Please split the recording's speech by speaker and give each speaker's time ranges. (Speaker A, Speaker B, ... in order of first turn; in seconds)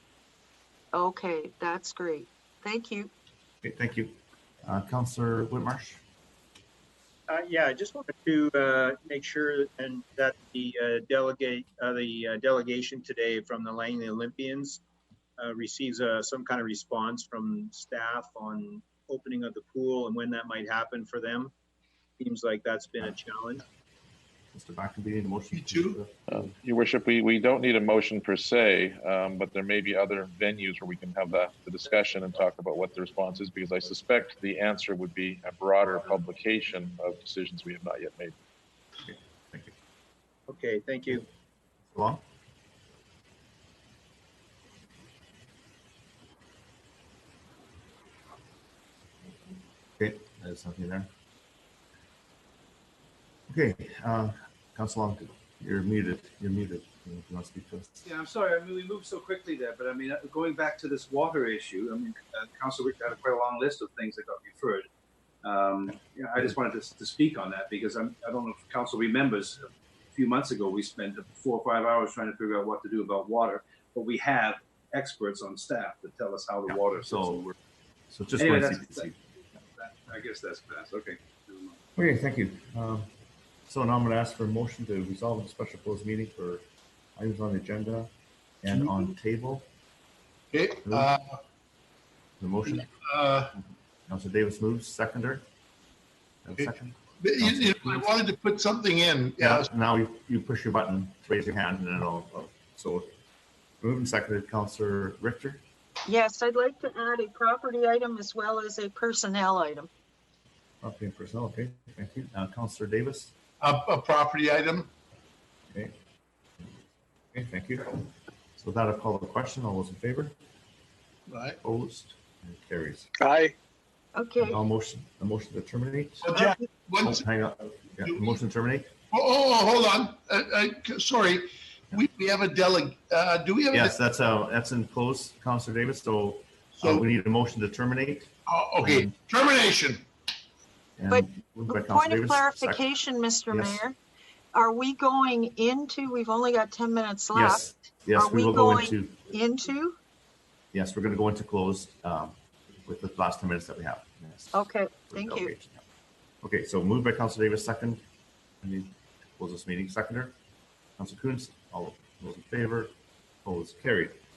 Speaker A: 0.9-3.1, 106.1-109.9, 124.2-124.6, 141.1-144.0, 144.5-147.6, 148.2-150.0, 154.5-155.5
Speaker B: 3.6-6.0, 24.5-26.4, 39.0-39.7, 41.9-42.2, 50.0-51.1, 53.5-57.9, 76.7-77.5, 78.1-79.2, 82.0-83.1, 83.7-86.7, 87.2-88.1, 88.6-89.7, 90.8-91.1, 92.4-92.9, 93.5-95.5, 96.4-98.1, 99.4-103.1, 103.8-105.6, 110.8-113.3, 116.6-120.4, 121.6-123.1, 124.4-126.4, 127.0-128.9, 133.7-139.1, 141.0-142.8, 143.5-143.8, 147.3-149.2, 150.7-155.8, 156.4-158.0, 158.6-160.3, 161.0-162.9, 163.4-164.2
Speaker C: 7.3-14.8, 15.4-21.5, 22.2-23.6, 40.5-41.3
Speaker D: 25.5-26.0, 90.5-91.4, 92.7-93.5, 96.6-99.7, 113.6-114.9, 121.3-121.6, 126.2-127.2, 128.0-128.3, 129.1-134.0, 138.5-140.0
Speaker E: 26.3-38.3
Speaker F: 58.0-64.9, 65.4-77.5, 78.4-81.8